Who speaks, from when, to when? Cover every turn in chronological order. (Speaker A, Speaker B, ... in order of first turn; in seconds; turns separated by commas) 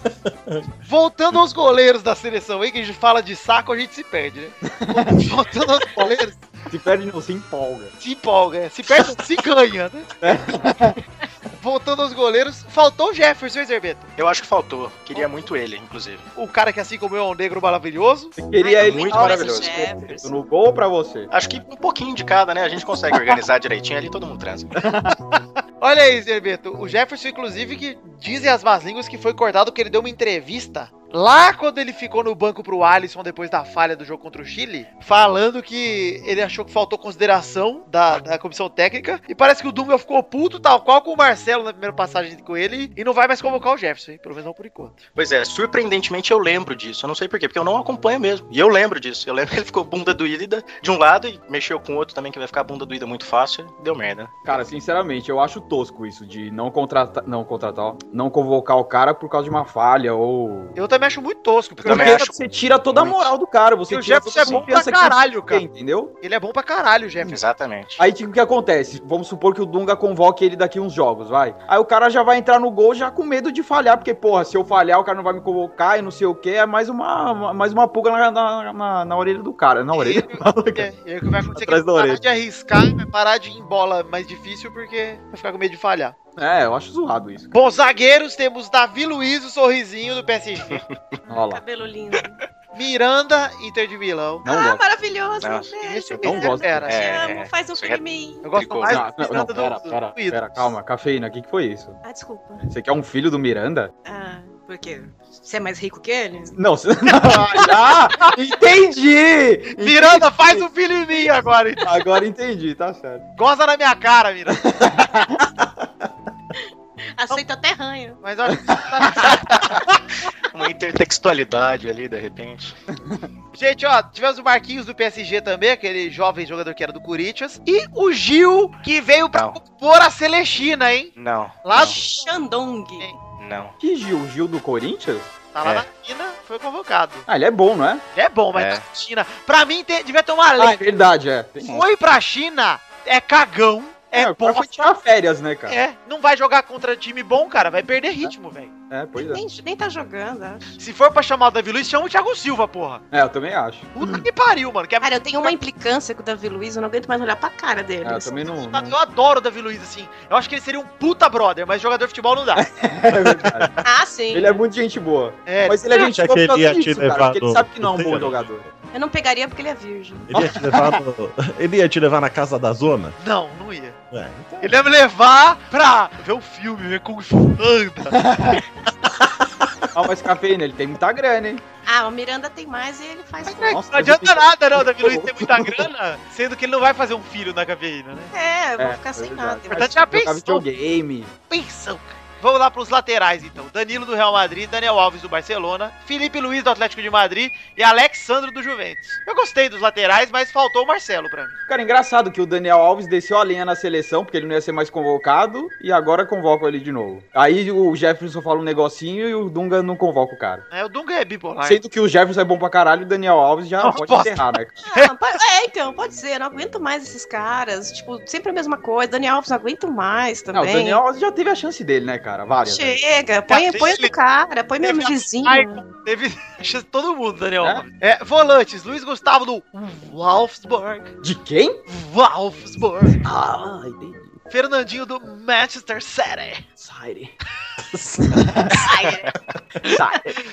Speaker A: 0.3-0.7, Speaker B: 0.9-6.4, Speaker C: 4.9-5.2, Speaker C: 6.7-7.9, Speaker B: 8.0-10.1, Speaker C: 10.2-11.0, Speaker B: 11.6-14.1, Speaker D: 14.2-16.2, Speaker B: 16.4-18.4, Speaker C: 18.4-21.3, Speaker E: 18.6-20.3, Speaker D: 18.8-19.6, Speaker D: 21.3-24.7, Speaker B: 25.1-45.0, Speaker D: 45.2-54.6, Speaker C: 54.5-60.8, Speaker B: 60.8-62.3, Speaker D: 61.8-62.4, Speaker C: 61.9-66.1, Speaker D: 62.9-63.3, Speaker B: 63.9-65.7, Speaker B: 66.2-67.4, Speaker D: 67.2-68.0, Speaker C: 68.0-80.9, Speaker B: 79.9-86.2, Speaker C: 81.5-82.2, Speaker C: 86.4-87.5, Speaker B: 87.5-90.8, Speaker D: 90.7-91.2, Speaker C: 91.3-91.6, Speaker E: 91.3-92.4, Speaker B: 92.8-94.5, Speaker C: 94.5-94.8, Speaker E: 94.5-98.9, Speaker D: 95.4-95.7, Speaker B: 95.8-97.0, Speaker C: 96.2-96.9, Speaker D: 96.9-98.0, Speaker B: 98.4-100.7, Speaker D: 98.5-99.0, Speaker C: 98.9-102.0, Speaker E: 102.0-102.7, Speaker C: 102.6-103.9, Speaker E: 104.1-106.6, Speaker C: 106.5-110.7, Speaker B: 109.8-111.8, Speaker C: 111.8-113.2, Speaker B: 113.4-115.1, Speaker C: 114.6-115.5, Speaker E: 117.2-118.2, Speaker B: 118.2-120.0, Speaker D: 120.5-122.8, Speaker B: 123.5-131.1, Speaker D: 131.2-132.0, Speaker B: 131.6-132.3, Speaker E: 131.7-133.2, Speaker D: 133.4-133.8, Speaker C: 133.8-135.3, Speaker B: 135.5-137.3, Speaker C: 137.3-138.0, Speaker B: 138.1-140.8, Speaker D: 138.5-138.8, Speaker C: 140.6-141.8, Speaker B: 141.6-144.9, Speaker C: 144.1-145.8, Speaker B: 145.7-148.7, Speaker C: 148.9-149.4, Speaker E: 149.2-150.8, Speaker B: 150.8-153.0, Speaker C: 153.1-154.2, Speaker B: 153.9-155.6, Speaker E: 155.0-158.4, Speaker C: 158.0-159.0, Speaker B: 158.7-162.7, Speaker C: 162.6-163.8, Speaker E: 163.8-164.6, Speaker C: 164.3-168.6, Speaker B: 165.5-165.9, Speaker A: 165.9-168.6, Speaker E: 168.9-170.3, Speaker A: 170.3-173.2, Speaker B: 173.2-174.0, Speaker A: 174.1-174.8, Speaker B: 174.6-178.2, Speaker C: 178.1-178.6, Speaker A: 179.2-179.7, Speaker C: 179.9-181.6, Speaker E: 181.9-183.8, Speaker B: 183.5-188.3, Speaker C: 183.6-185.8, Speaker E: 188.3-190.0, Speaker C: 188.8-191.3, Speaker B: 189.7-190.7, Speaker B: 191.5-201.6, Speaker C: 201.7-210.6, Speaker B: 210.7-211.8, Speaker C: 211.6-214.8, Speaker B: 213.8-215.1, Speaker E: 214.9-221.0, Speaker C: 220.5-223.0, Speaker E: 222.7-225.8, Speaker B: 223.5-224.1, Speaker B: 224.8-231.1, Speaker C: 231.2-231.8, Speaker B: 231.9-233.2, Speaker C: 233.2-234.4, Speaker B: 234.5-236.7, Speaker C: 236.8-237.3, Speaker A: 237.9-238.8, Speaker C: 238.4-238.8, Speaker E: 238.8-239.3, Speaker C: 239.8-240.4